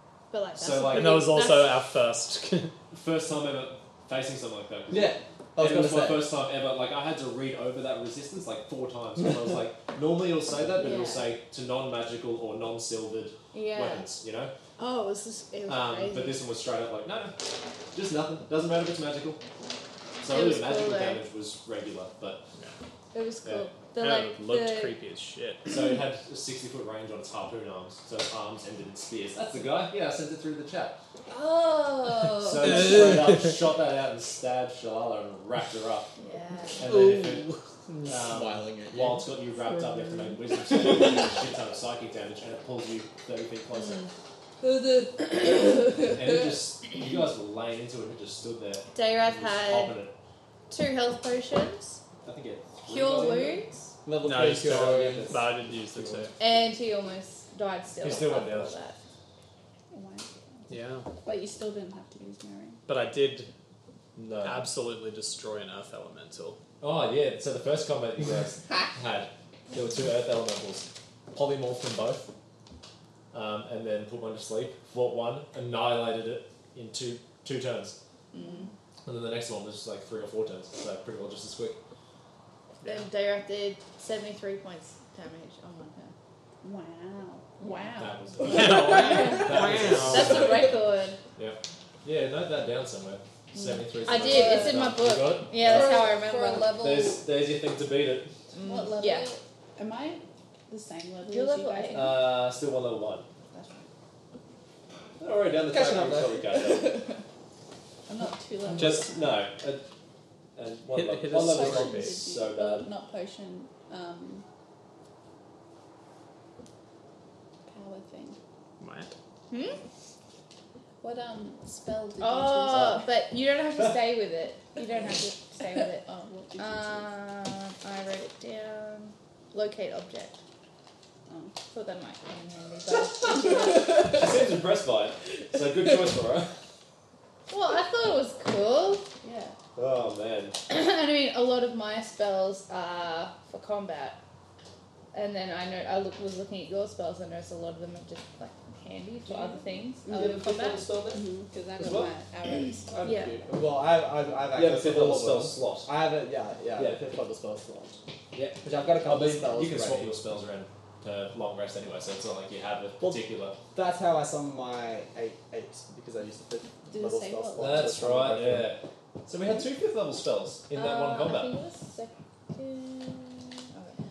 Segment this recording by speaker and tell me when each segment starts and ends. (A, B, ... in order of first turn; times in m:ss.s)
0:00.3-0:01.8 A
0:00.6-0:01.3 B
0:00.8-0:02.7 C
0:02.9-0:14.5 B
0:04.9-0:06.3 D
0:10.7-0:11.3 A
0:13.5-0:14.1 A
0:14.8-0:16.4 A
0:15.7-0:17.4 B
0:17.9-0:19.4 B
0:20.2-0:22.4 B
0:20.2-0:21.2 A
0:23.1-0:24.9 A
0:23.4-0:23.7 B
0:24.0-0:25.7 C
0:25.6-0:31.0 B
0:31.3-0:33.0 A
0:32.4-0:36.1 B
0:32.7-0:33.4 D
0:36.2-0:36.8 A
0:36.8-0:37.5 B
0:36.9-0:37.6 C
0:37.9-0:39.3 D
0:38.0-0:44.0 B
0:39.9-0:40.3 C
0:40.7-0:41.3 D
0:43.7-0:46.2 A
0:46.0-0:50.1 B
0:48.9-0:50.0 A
0:50.7-0:52.0 A
0:52.2-0:53.6 B
0:52.8-0:53.9 A
0:54.0-0:55.4 D
0:54.2-0:56.3 C
0:54.9-0:55.4 B
0:55.9-0:56.3 B
0:56.4-0:59.0 A
0:58.0-0:58.7 B
0:59.9-1:02.8 E
1:00.7-1:01.1 C
1:02.9-1:03.5 C
1:04.2-1:04.6 B
1:04.4-1:06.6 C
1:06.8-1:12.3 B
1:13.3-1:18.0 B
1:18.3-1:18.7 A
1:18.3-1:18.7 E
1:19.0-1:21.8 B
1:22.8-1:23.1 C
1:22.8-1:26.1 A
1:26.6-1:29.4 E
1:27.6-1:28.0 A
1:28.0-1:30.8 B
1:28.4-1:30.6 C
1:28.5-1:31.2 A
1:31.4-1:36.2 B
1:33.5-1:37.0 A
1:34.2-1:35.0 E
1:35.6-1:37.2 E
1:36.7-1:38.3 B
1:38.5-1:39.3 A
1:38.6-1:42.3 E
1:41.2-1:42.2 A
1:41.9-1:43.2 B
1:43.5-1:43.8 A
1:45.2-1:47.0 B
1:45.7-1:46.6 D
1:46.6-1:47.2 E
1:48.1-1:49.5 E
1:48.7-1:49.8 B
1:48.8-1:49.0 C
1:50.6-1:52.9 B
1:50.9-1:51.9 C
1:51.3-1:54.4 E
1:51.8-1:52.1 D
1:57.7-1:58.4 E
1:58.8-1:59.1 C
1:59.5-1:59.8 A
2:01.0-2:03.0 E
2:02.2-2:06.0 A
2:04.9-2:05.1 E
2:05.9-2:07.1 E
2:06.6-2:10.4 A
2:11.3-2:11.6 E
2:11.7-2:14.2 A
2:13.2-2:16.6 B
2:13.7-2:14.1 E
2:17.5-2:19.1 A
2:19.2-2:19.6 E
2:19.8-2:20.6 B
2:20.7-2:24.2 A
2:25.1-2:30.8 A
2:29.2-2:33.3 E
2:30.1-2:31.2 B
2:31.8-2:32.1 B
2:32.9-2:38.0 D
2:33.0-2:33.4 A
2:34.5-2:35.9 B
2:38.3-2:43.5 B
2:38.6-2:40.1 D
2:43.0-2:48.7 D
2:46.9-2:48.0 E
2:47.6-2:51.5 B
2:50.7-2:51.7 A
2:51.5-2:52.1 E
2:52.5-2:54.0 A